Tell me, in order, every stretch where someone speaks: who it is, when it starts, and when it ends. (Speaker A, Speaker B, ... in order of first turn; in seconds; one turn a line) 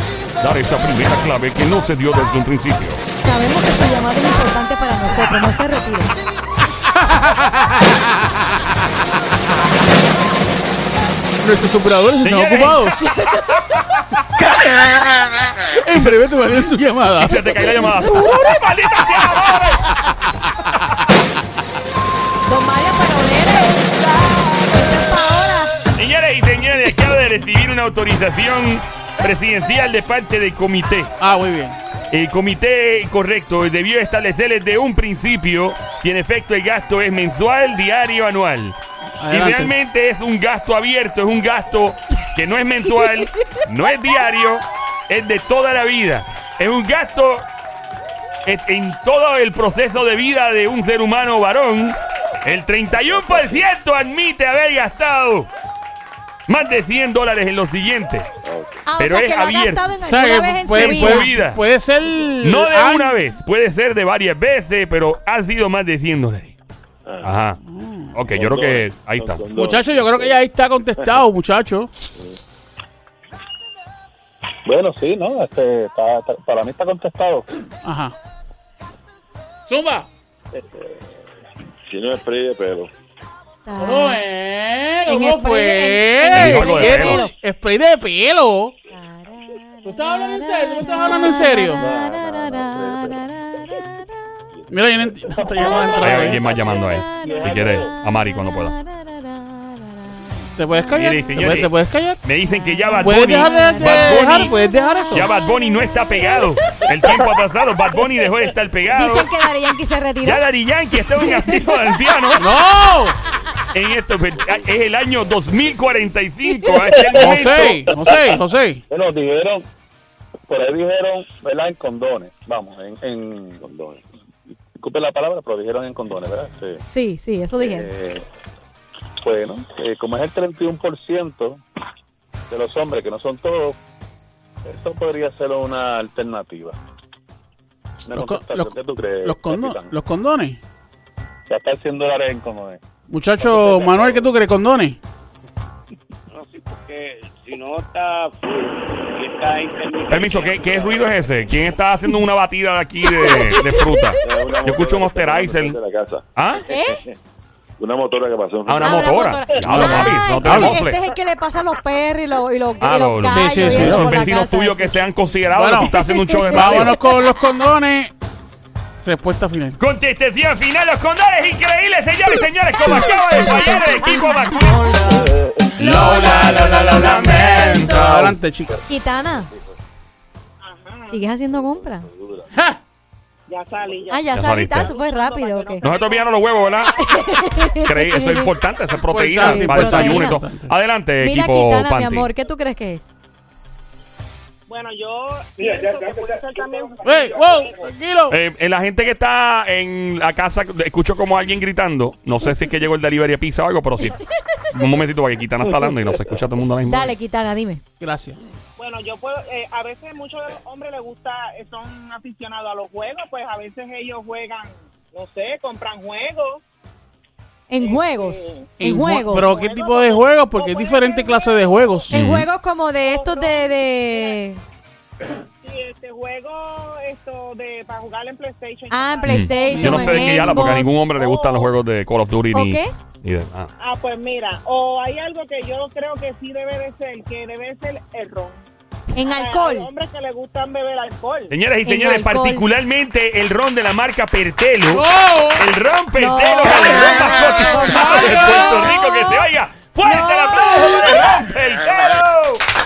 Speaker A: 0.4-3.0
Speaker B: 3.2-6.1
Speaker C: 6.9-9.5
Speaker C: 11.4-13.2
Speaker A: 12.2-13.6
Speaker C: 15.7-17.6
Speaker A: 15.9-16.2
Speaker A: 17.2-20.0
Speaker B: 22.4-25.8
Speaker A: 25.9-31.1
Speaker C: 31.2-31.8
Speaker A: 32.1-47.5
Speaker C: 39.2-39.7
Speaker A: 48.4-55.5
Speaker D: 53.0-53.6
Speaker A: 56.5-58.3
Speaker D: 58.4-58.8
Speaker B: 58.8-61.3
Speaker A: 59.0-59.8
Speaker C: 60.0-63.1
Speaker A: 60.7-61.6
Speaker A: 62.4-66.5
Speaker D: 67.0-67.3
Speaker A: 67.2-67.6
Speaker C: 67.6-68.2
Speaker A: 68.1-69.4
Speaker D: 68.3-70.4
Speaker C: 69.5-71.9
Speaker E: 74.7-77.5
Speaker C: 77.8-78.1
Speaker C: 79.7-80.1
Speaker E: 80.5-80.8
Speaker D: 81.9-82.9
Speaker B: 83.7-84.2
Speaker C: 83.8-88.7
Speaker B: 85.0-87.3
Speaker A: 86.3-87.2
Speaker B: 88.9-94.1
Speaker C: 89.8-91.8
Speaker E: 91.8-93.2
Speaker D: 91.8-92.1
Speaker C: 94.7-96.4
Speaker E: 95.3-97.9
Speaker B: 95.5-100.5
Speaker A: 96.0-98.8
Speaker C: 100.6-102.2
Speaker A: 100.9-101.7
Speaker A: 102.2-104.5
Speaker B: 102.5-107.3
Speaker C: 103.0-105.3
Speaker A: 105.1-109.3
Speaker B: 108.9-110.4
Speaker A: 110.2-112.5
Speaker B: 111.0-112.1
Speaker C: 112.4-113.2
Speaker A: 113.7-117.9
Speaker C: 117.1-118.8
Speaker E: 118.9-119.7
Speaker E: 120.5-123.6
Speaker D: 123.6-124.0
Speaker E: 124.8-126.8
Speaker B: 126.8-127.9
Speaker E: 127.6-128.2
Speaker E: 129.2-131.6
Speaker E: 132.5-133.8
Speaker E: 134.6-136.8
Speaker E: 138.0-139.9
Speaker C: 138.1-140.6
Speaker E: 141.5-142.8
Speaker C: 143.1-145.0
Speaker F: 146.3-151.5
Speaker A: 150.1-155.8
Speaker B: 153.0-154.2
Speaker D: 154.2-156.2
Speaker A: 156.3-156.7
Speaker B: 156.7-157.0
Speaker D: 157.8-159.3
Speaker A: 158.7-161.0
Speaker B: 158.8-164.9
Speaker C: 159.7-160.8
Speaker A: 162.8-167.0
Speaker C: 163.3-164.3
Speaker C: 165.5-165.9
Speaker B: 165.8-167.2
Speaker C: 166.5-168.1
Speaker C: 169.0-169.8
Speaker A: 169.8-175.1
Speaker B: 172.9-174.9
Speaker E: 175.0-176.2
Speaker C: 175.8-178.8
Speaker B: 175.8-178.0
Speaker A: 176.0-178.3
Speaker B: 178.8-179.5
Speaker G: 180.6-181.2
Speaker B: 181.1-182.1
Speaker D: 181.5-182.4
Speaker C: 182.5-182.8
Speaker G: 183.5-187.4
Speaker B: 184.1-185.8
Speaker A: 184.3-184.9
Speaker A: 185.8-186.9
Speaker B: 186.9-188.5
Speaker A: 187.8-192.3
Speaker C: 189.1-190.7
Speaker B: 189.3-190.4
Speaker B: 191.2-193.1
Speaker G: 194.7-197.8
Speaker C: 197.0-198.4
Speaker A: 198.3-204.2
Speaker A: 204.7-207.1
Speaker B: 206.8-207.8
Speaker C: 208.0-208.4
Speaker G: 208.8-216.6
Speaker B: 217.7-219.6
Speaker G: 217.8-218.7
Speaker C: 218.8-222.3
Speaker G: 219.3-222.1
Speaker B: 222.1-224.6
Speaker A: 222.1-222.5
Speaker G: 223.0-224.4
Speaker G: 225.6-231.7
Speaker B: 228.9-231.0
Speaker A: 229.3-233.7
Speaker B: 232.5-232.9
Speaker G: 233.8-238.6
Speaker B: 239.1-239.9
Speaker G: 239.2-241.5
Speaker A: 241.5-252.6
Speaker B: 241.8-242.7
Speaker C: 244.9-245.7
Speaker B: 246.1-249.5
Speaker C: 247.8-248.7
Speaker B: 250.0-251.3